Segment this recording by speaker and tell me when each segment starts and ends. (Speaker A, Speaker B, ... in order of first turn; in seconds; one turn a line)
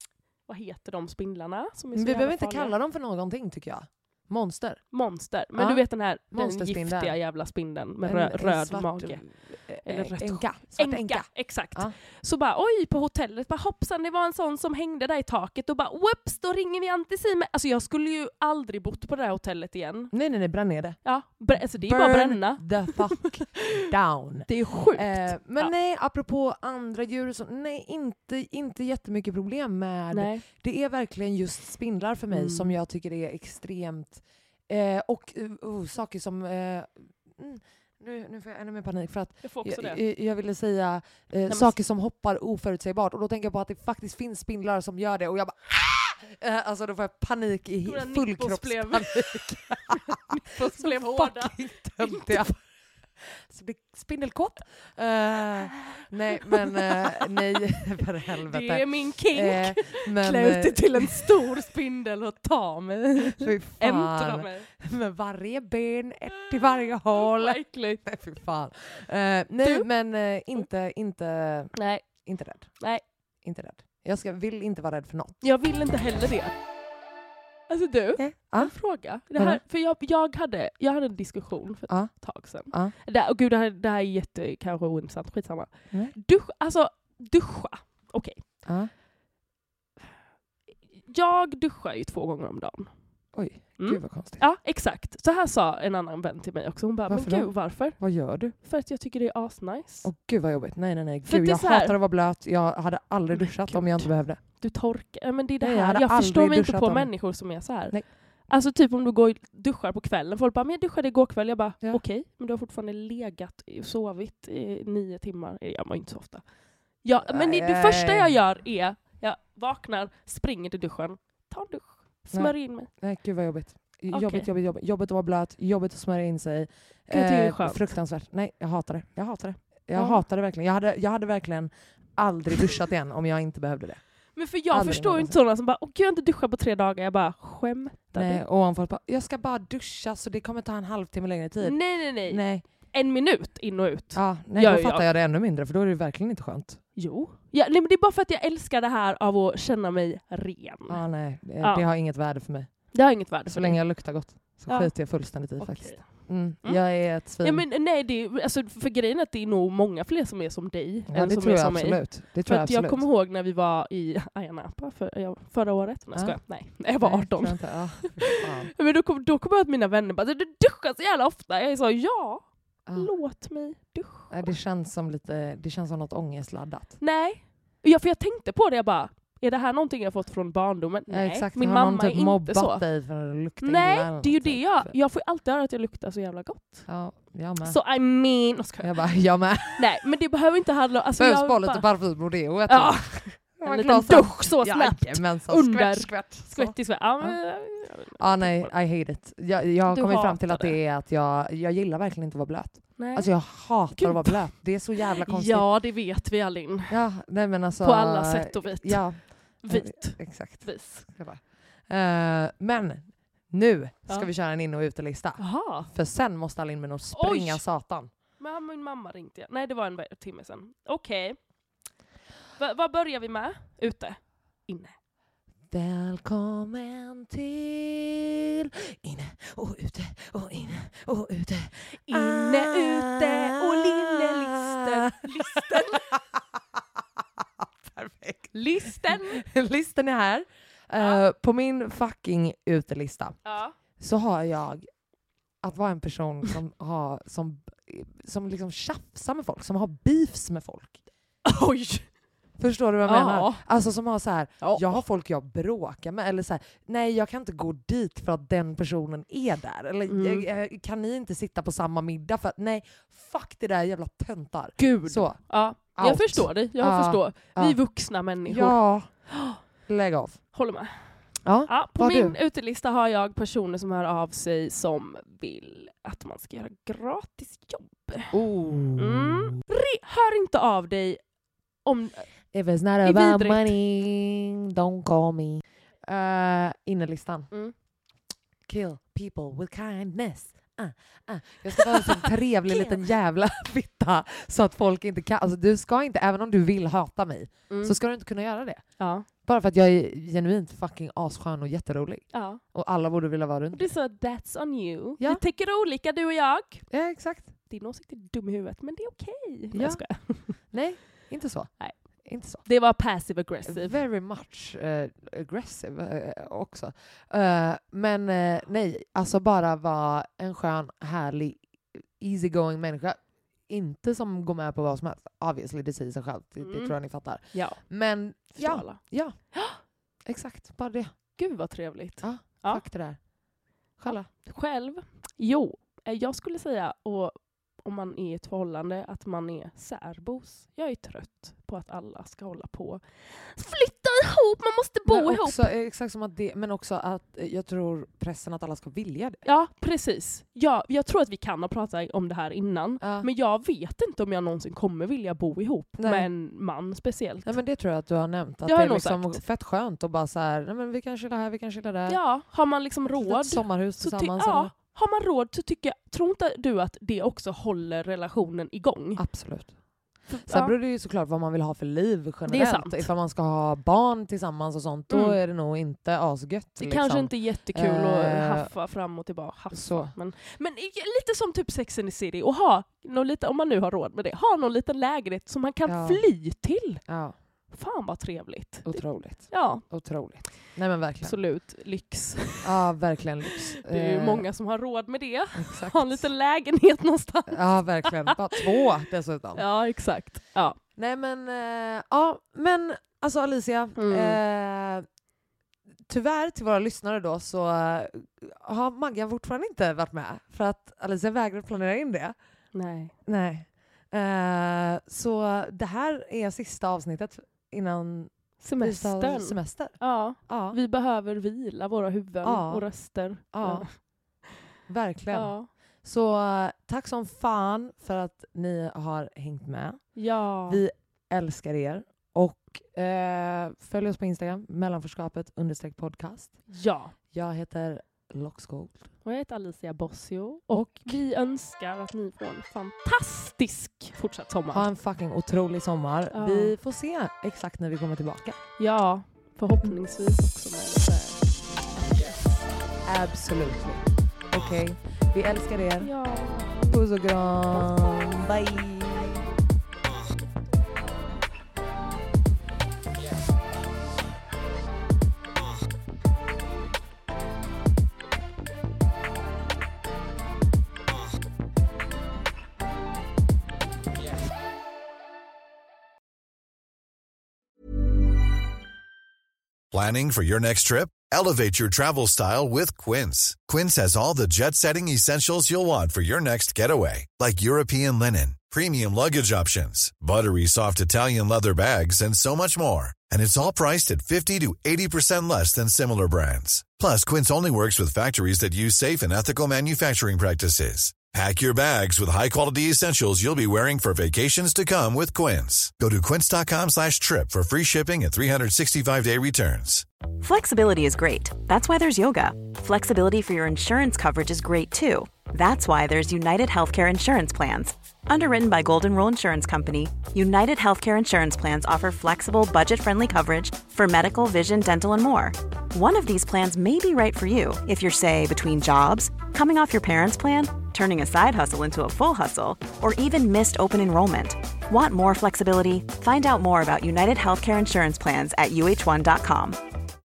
Speaker A: 0.5-2.7
Speaker B: 1.9-4.8
Speaker A: 4.9-9.2
Speaker B: 5.6-7.2
Speaker B: 8.0-11.9
Speaker A: 9.8-20.1
Speaker B: 20.1-21.0
Speaker A: 21.0-23.0
Speaker B: 21.5-52.6
Speaker A: 24.5-25.7
Speaker A: 30.1-30.4
Speaker A: 32.3-32.8
Speaker A: 39.4-40.0
Speaker A: 41.5-41.8
Speaker A: 47.9-52.4
Speaker B: 53.2-61.6
Speaker A: 56.0-57.4
Speaker A: 58.4-64.7
Speaker B: 63.2-72.8
Speaker A: 66.7-68.0
Speaker A: 69.6-69.9
Speaker A: 71.7-72.3
Speaker B: 73.4-75.4
Speaker A: 75.4-76.5
Speaker A: 77.7-88.4
Speaker B: 78.2-78.8
Speaker B: 79.3-79.6
Speaker B: 82.7-82.9
Speaker A: 91.1-92.9
Speaker B: 93.3-94.4
Speaker A: 93.8-98.0
Speaker B: 97.1-98.6
Speaker A: 98.5-100.1
Speaker B: 100.0-104.4
Speaker A: 101.3-102.0
Speaker A: 103.4-116.5
Speaker B: 105.6-108.1
Speaker A: 117.0-122.9
Speaker B: 117.3-118.3
Speaker B: 122.3-134.0
Speaker A: 124.1-124.5
Speaker A: 127.1-127.9
Speaker A: 129.9-130.2
Speaker A: 134.4-138.4
Speaker B: 134.7-135.4
Speaker B: 138.1-142.7
Speaker A: 141.6-145.1
Speaker B: 144.1-146.8
Speaker A: 147.0-151.0
Speaker B: 150.9-152.9
Speaker A: 151.6-151.8
Speaker A: 152.9-153.8
Speaker B: 153.4-157.6
Speaker A: 154.7-174.5
Speaker B: 161.1-163.1
Speaker B: 166.2-166.4
Speaker B: 167.0-168.7
Speaker B: 172.9-173.1
Speaker B: 174.3-177.0
Speaker A: 177.0-182.8
Speaker B: 181.1-185.0
Speaker A: 183.6-186.9
Speaker B: 186.9-187.8
Speaker A: 187.6-189.0
Speaker B: 188.8-189.9
Speaker A: 189.8-191.9
Speaker B: 191.2-197.4
Speaker A: 192.7-198.7
Speaker B: 198.2-205.7
Speaker A: 199.9-200.8
Speaker A: 203.0-203.3
Speaker A: 203.9-207.0
Speaker B: 206.9-218.1
Speaker A: 207.8-211.1
Speaker A: 215.4-215.9
Speaker A: 217.1-217.6
Speaker A: 218.4-221.4
Speaker A: 222.6-224.9
Speaker B: 225.7-236.8
Speaker A: 232.1-236.1
Speaker B: 237.4-243.4
Speaker A: 238.5-239.4
Speaker A: 243.4-243.8
Speaker B: 244.0-244.9
Speaker B: 245.6-251.0
Speaker A: 251.4-252.1
Speaker B: 252.6-267.8
Speaker A: 253.1-253.7
Speaker A: 254.6-255.0
Speaker A: 260.1-260.5
Speaker A: 264.8-268.8
Speaker B: 268.4-269.1
Speaker A: 269.3-269.6
Speaker B: 269.9-270.4
Speaker A: 270.5-271.1
Speaker B: 271.4-272.4
Speaker A: 271.7-278.4
Speaker B: 278.3-279.6
Speaker A: 279.0-281.2
Speaker A: 281.9-282.3
Speaker B: 282.5-287.5
Speaker A: 283.0-283.8
Speaker B: 288.7-298.9
Speaker A: 291.8-293.0
Speaker A: 297.7-298.0
Speaker A: 299.0-299.3
Speaker B: 299.4-303.9
Speaker A: 302.3-302.6
Speaker A: 303.7-306.8
Speaker B: 306.9-307.5
Speaker A: 307.7-310.6
Speaker B: 309.7-312.7
Speaker A: 312.6-314.0
Speaker B: 313.7-329.4
Speaker A: 326.6-327.0
Speaker A: 327.5-329.0
Speaker A: 329.5-329.8
Speaker B: 330.3-331.2
Speaker A: 331.4-332.8
Speaker B: 332.2-333.2
Speaker B: 334.0-334.3
Speaker A: 334.4-345.7
Speaker B: 345.1-349.4
Speaker A: 349.4-357.6
Speaker B: 353.0-353.3
Speaker B: 356.0-356.3
Speaker B: 357.4-362.2
Speaker A: 358.6-359.4
Speaker A: 362.1-369.2
Speaker B: 363.2-364.7
Speaker B: 369.2-369.7
Speaker A: 370.3-370.8
Speaker B: 370.5-378.7
Speaker A: 372.5-373.1
Speaker A: 375.1-375.4
Speaker A: 376.8-387.0
Speaker B: 379.7-380.1
Speaker B: 385.9-386.2
Speaker B: 387.1-387.4
Speaker A: 387.7-389.8
Speaker B: 388.9-391.4
Speaker A: 391.2-392.7
Speaker B: 392.6-394.4
Speaker A: 393.5-398.9
Speaker B: 395.6-396.3
Speaker B: 397.5-399.6
Speaker A: 399.6-400.8
Speaker B: 401.0-405.1
Speaker A: 404.0-404.4
Speaker B: 406.1-412.4
Speaker A: 412.7-413.1
Speaker B: 413.3-420.8
Speaker A: 418.6-423.9
Speaker B: 422.4-423.9
Speaker B: 424.9-436.6
Speaker A: 425.3-425.7
Speaker A: 430.2-430.8
Speaker A: 436.7-437.1
Speaker B: 437.3-439.1
Speaker A: 439.2-444.9
Speaker B: 440.7-441.1
Speaker B: 444.7-448.6
Speaker A: 446.3-446.8
Speaker A: 448.8-452.6
Speaker B: 453.1-456.1
Speaker A: 456.0-457.0
Speaker B: 456.9-459.5
Speaker A: 457.7-458.2
Speaker C: 479.9-510.1
Speaker D: 510.4-539.8